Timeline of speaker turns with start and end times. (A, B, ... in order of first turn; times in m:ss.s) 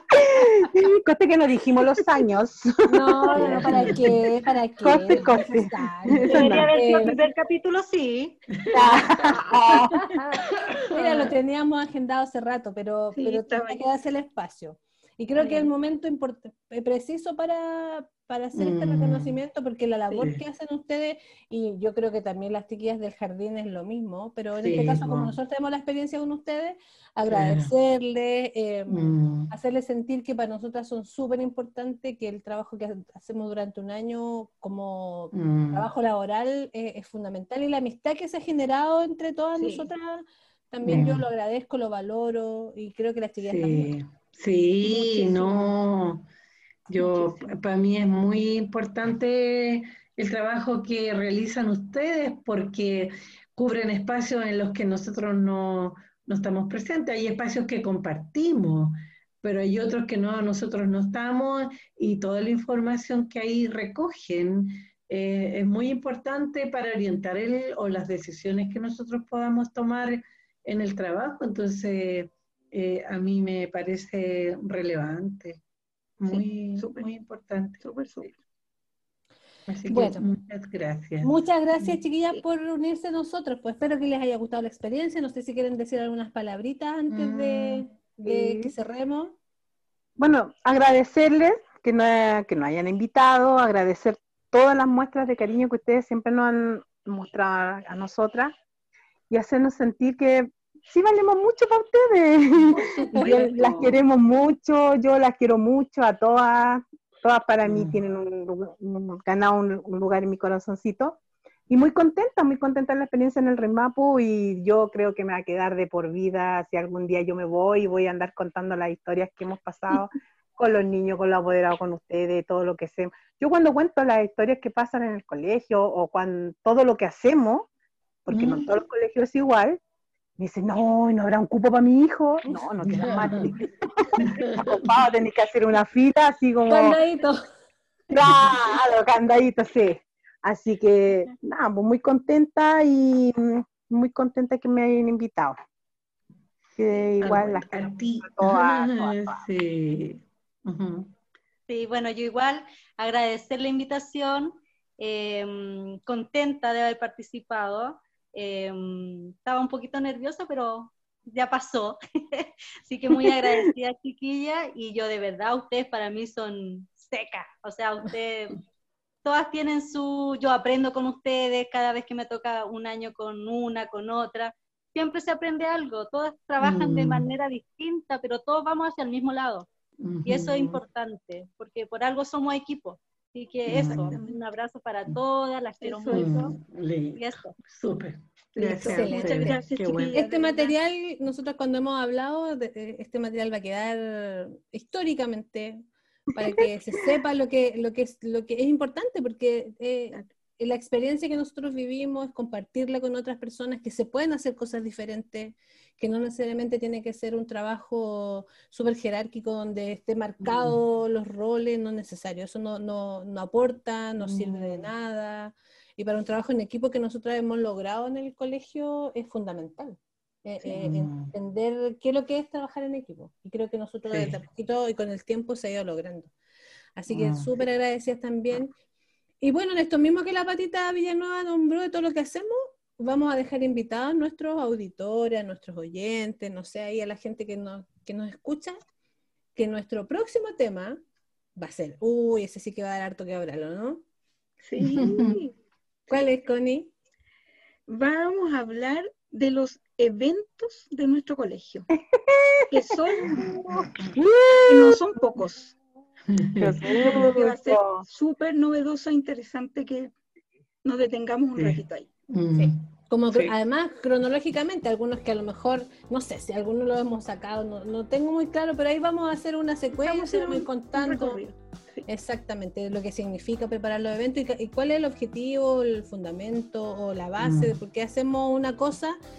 0:00.1-0:04.0 A
0:02.9-0:07.2 B
0:03.4-0:04.3 C
0:04.8-0:06.7 A
0:06.3-0:08.4 D
0:08.5-0:09.2 C
0:08.7-0:10.0 A
0:08.9-0:43.9 B
0:10.4-0:11.4 C
0:13.1-0:13.8 E
0:15.4-0:15.7 E
0:18.6-0:19.4 C
0:24.6-0:25.4 C
0:27.3-0:27.7 C
0:28.9-0:29.5 C
0:35.3-0:35.9 C
0:39.6-0:39.9 E
0:40.8-0:41.3 C
0:43.4-0:46.3 C
0:44.8-0:45.7 E
0:46.9-1:15.6 C
0:47.0-0:47.6 E
1:16.2-1:18.3 C
1:16.3-1:17.1 E
1:17.8-1:18.3 E
1:19.7-1:21.9 C
1:19.9-1:20.3 B
1:21.2-1:29.4 B
1:27.1-1:27.9 C
1:28.2-1:28.7 A
1:30.2-1:38.5 A
1:39.3-2:07.7 A
1:42.8-1:44.0 E
1:47.6-1:48.0 C
2:08.3-2:09.8 A
2:08.3-2:08.7 C
2:10.4-2:17.0 A
2:12.8-2:13.6 C
2:14.2-2:15.0 C
2:16.7-2:17.4 B
2:18.1-2:25.6 A
2:18.2-2:18.5 C
2:26.8-2:29.4 A
2:27.2-2:31.1 C
2:31.7-2:48.6 D
2:49.2-2:59.7 D
2:56.6-2:57.3 C
3:00.0-3:00.8 C
3:00.3-3:06.6 D
3:03.7-3:04.2 C
3:03.8-3:04.4 E
3:05.8-3:06.3 E
3:06.1-3:10.2 C
3:07.2-3:07.6 D
3:08.6-3:10.8 E
3:08.8-3:46.3 B
3:30.4-3:30.8 C
3:34.2-3:34.9 C
3:40.7-3:41.3 C
3:44.1-3:44.4 C
3:47.0-3:48.8 B
3:47.1-3:47.6 C
3:49.4-3:58.8 B
3:59.6-4:01.0 B
4:01.6-4:04.0 B
4:04.6-4:05.5 E
4:04.8-4:05.4 C
4:06.1-4:06.9 B
4:07.9-4:11.9 E
4:12.1-4:15.4 A
4:12.7-4:13.5 E
4:14.7-4:15.7 E
4:16.3-4:17.3 C
4:16.6-4:18.0 A
4:16.9-4:20.1 E
4:20.8-4:22.1 E
4:21.6-4:23.6 C
4:22.5-4:31.4 B
4:30.0-4:32.1 E
4:32.1-4:39.2 B
4:37.4-4:37.8 C